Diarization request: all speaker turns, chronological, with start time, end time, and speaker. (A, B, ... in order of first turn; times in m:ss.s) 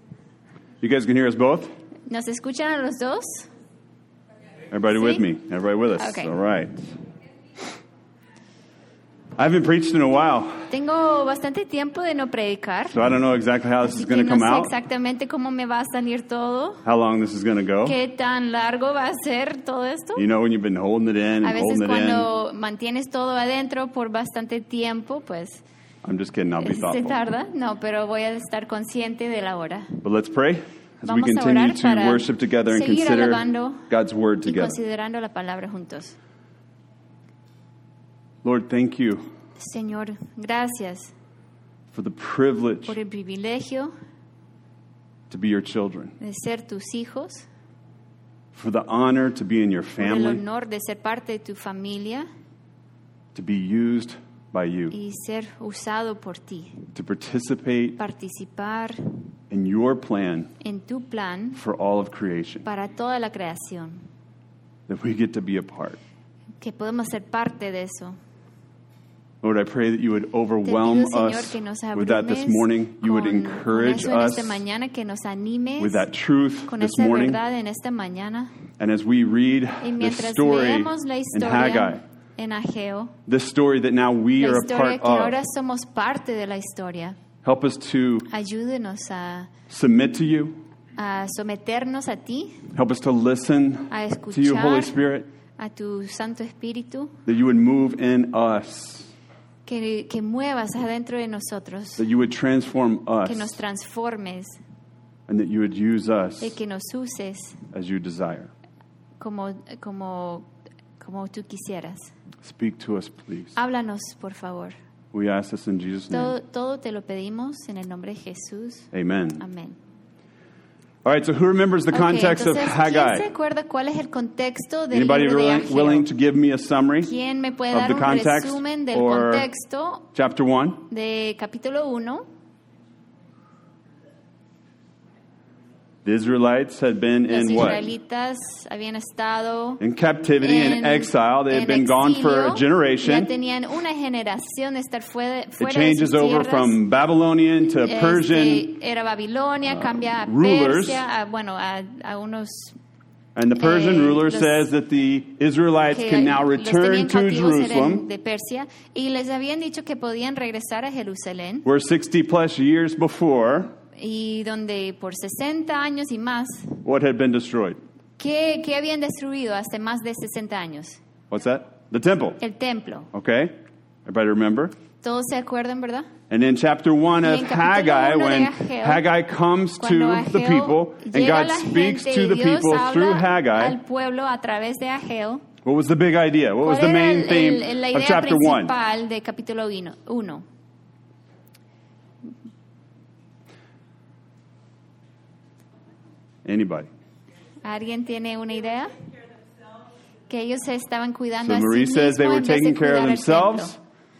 0:00.8-0:01.7 A
0:02.1-0:03.5 B
0:04.7-0:06.8 A
0:05.0-0:05.2 B
0:06.0-0:06.3 B
0:09.4-0:10.7 A
0:10.7-0:13.0 B
0:12.9-0:14.7 A
0:13.8-0:16.8 B
0:16.8-0:18.0 A
0:17.8-0:20.2 B
0:20.2-0:22.3 A
0:21.4-0:25.6 B
0:26.0-0:27.2 A
0:26.6-0:30.0 B
0:30.0-0:34.8 A
0:31.0-0:33.9 B
0:34.4-0:36.1 B
0:38.4-0:39.2 A
0:39.6-0:41.1 B
0:41.9-0:43.0 A
0:42.8-0:43.9 B
0:45.3-0:46.1 A
0:46.2-0:47.4 B
0:48.5-0:50.4 A
0:50.0-0:52.3 B
0:53.3-0:54.9 A
0:54.9-0:56.8 B
0:56.9-0:58.0 A
0:58.0-0:59.0 B
0:59.5-1:00.5 A
1:00.6-1:01.6 B
1:01.5-1:02.7 A
1:02.6-1:04.0 B
1:04.9-1:06.0 A
1:06.6-1:08.2 B
1:09.4-1:14.6 A
1:10.6-1:16.0 B
1:15.8-1:17.4 A
1:16.7-1:18.6 B
1:18.8-1:22.0 A
1:19.8-1:23.1 B
1:23.3-1:25.4 A
1:24.4-1:27.2 B
1:27.4-1:28.3 A
1:28.3-1:29.5 B
1:29.7-1:30.6 A
1:31.0-1:32.7 B
1:32.7-1:35.3 A
1:33.9-1:35.0 B
1:35.6-1:37.1 B
1:37.2-1:39.1 A
1:39.6-1:42.0 B
1:42.0-1:43.6 A
1:43.2-1:44.6 B
1:45.3-1:46.6 A
1:46.4-1:47.6 B
1:47.7-1:48.5 A
1:49.2-1:50.5 B
1:51.0-1:52.1 B
1:52.4-1:53.6 A
1:53.6-1:54.7 B
1:55.1-1:56.3 A
1:56.1-1:59.8 B
1:58.9-1:59.4 A
2:01.0-2:03.3 A
2:01.9-2:06.1 B
2:04.9-2:07.1 A
2:07.0-2:10.1 B
2:07.7-2:09.5 A
2:10.1-2:10.8 A
2:10.9-2:12.2 B
2:16.0-2:17.9 A
2:17.3-2:19.8 B
2:19.8-2:23.3 A
2:20.4-2:26.8 B
2:25.6-2:28.7 A
2:27.7-2:32.8 B
2:29.7-2:31.0 A
2:33.3-2:38.0 A
2:33.5-2:34.7 B
2:35.9-2:41.6 B
2:41.6-2:43.7 A
2:43.9-2:46.8 B
2:46.8-2:47.8 A
2:48.2-2:51.0 B
2:51.3-2:52.4 A
2:52.4-2:53.1 B
2:53.1-2:53.5 A
2:54.0-2:54.7 A
2:55.0-2:56.1 B
2:56.3-3:03.8 A
2:57.2-2:59.0 B
2:59.8-3:05.4 B
3:05.6-3:08.7 A
3:06.6-3:10.4 B
3:16.4-3:16.9 A
3:17.6-3:19.0 B
3:20.3-3:23.7 B
3:21.4-3:23.8 A